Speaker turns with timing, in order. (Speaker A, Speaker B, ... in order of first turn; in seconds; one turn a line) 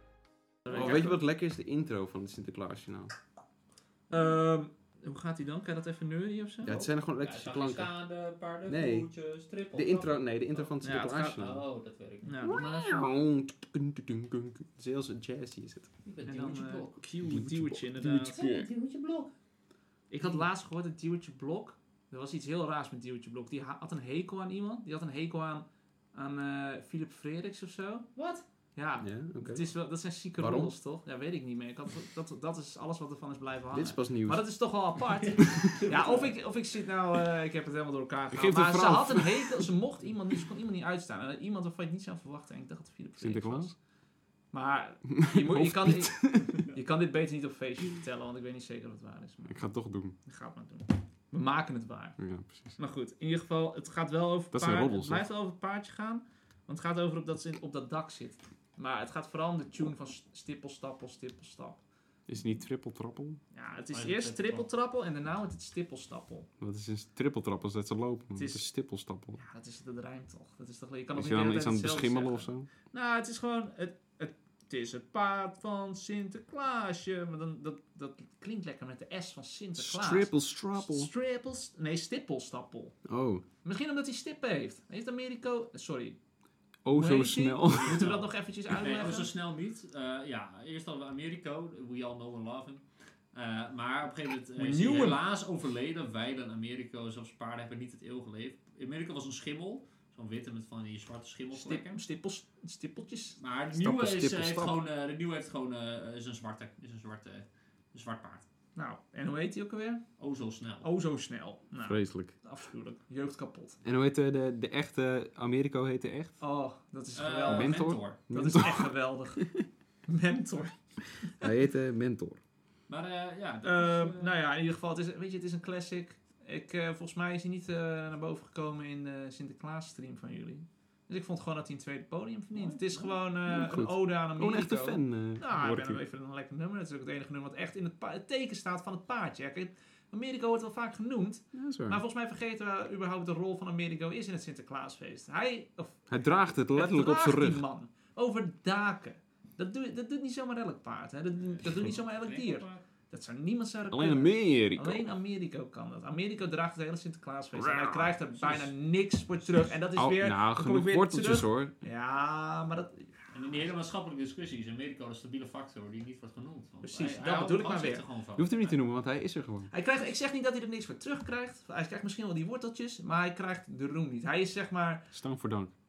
Speaker A: 0.7-1.2
Speaker B: 0.7-1.1
Speaker C: 0.7-3.2
Speaker A: 4.1-6.8
Speaker C: 6.6-8.1
Speaker B: 6.7-12.8
Speaker C: 8.7-11.6
Speaker A: 10.8-11.4
Speaker A: 12.2-12.6
Speaker C: 12.5-15.9
Speaker B: 16.0-17.0
Speaker A: 16.3-18.4
Speaker C: 17.2-18.7
Speaker B: 18.0-19.3
Speaker A: 20.1-28.1
Speaker B: 28.1-28.4
Speaker A: 28.8-43.8
Speaker C: 29.0-30.7
Speaker C: 33.7-34.9
Speaker B: 35.2-36.4
Speaker C: 38.3-39.7
Speaker C: 43.2-43.7
Speaker A: 44.5-49.7
Speaker C: 45.2-46.6
Speaker C: 49.5-50.2
Speaker A: 50.2-61.8
Speaker C: 52.2-52.8
Speaker C: 54.5-55.2
Speaker C: 62.3-63.4
Speaker A: 63.5-66.5
Speaker B: 63.9-64.7
Speaker C: 66.6-69.4
Speaker A: 68.4-68.7
Speaker A: 69.4-83.0
Speaker C: 71.1-72.7
Speaker C: 79.8-81.1
Speaker C: 83.1-83.4
Speaker A: 83.6-86.2
Speaker C: 86.8-88.2
Speaker A: 86.9-89.3
Speaker B: 87.8-101.9
Speaker A: 94.6-95.2
Speaker A: 101.5-103.4
Speaker B: 103.4-108.5
Speaker C: 103.7-104.8
Speaker A: 108.8-110.0
Speaker B: 110.2-110.9
Speaker A: 110.8-113.8
Speaker C: 111.8-112.3
Speaker C: 113.8-116.4
Speaker A: 116.4-121.5
Speaker B: 117.2-118.2
Speaker C: 117.5-119.6
Speaker C: 121.4-122.4
Speaker B: 122.9-124.4
Speaker A: 123.6-163.1
Speaker B: 132.5-133.2
Speaker C: 133.5-136.0
Speaker C: 141.5-142.0
Speaker C: 146.1-147.7
Speaker B: 151.5-152.8
Speaker C: 153.9-155.1
Speaker C: 157.6-158.2
Speaker C: 159.9-161.7
Speaker B: 163.3-168.8
Speaker A: 166.8-168.0
Speaker C: 168.4-169.7
Speaker A: 169.7-175.1
Speaker C: 175.1-175.7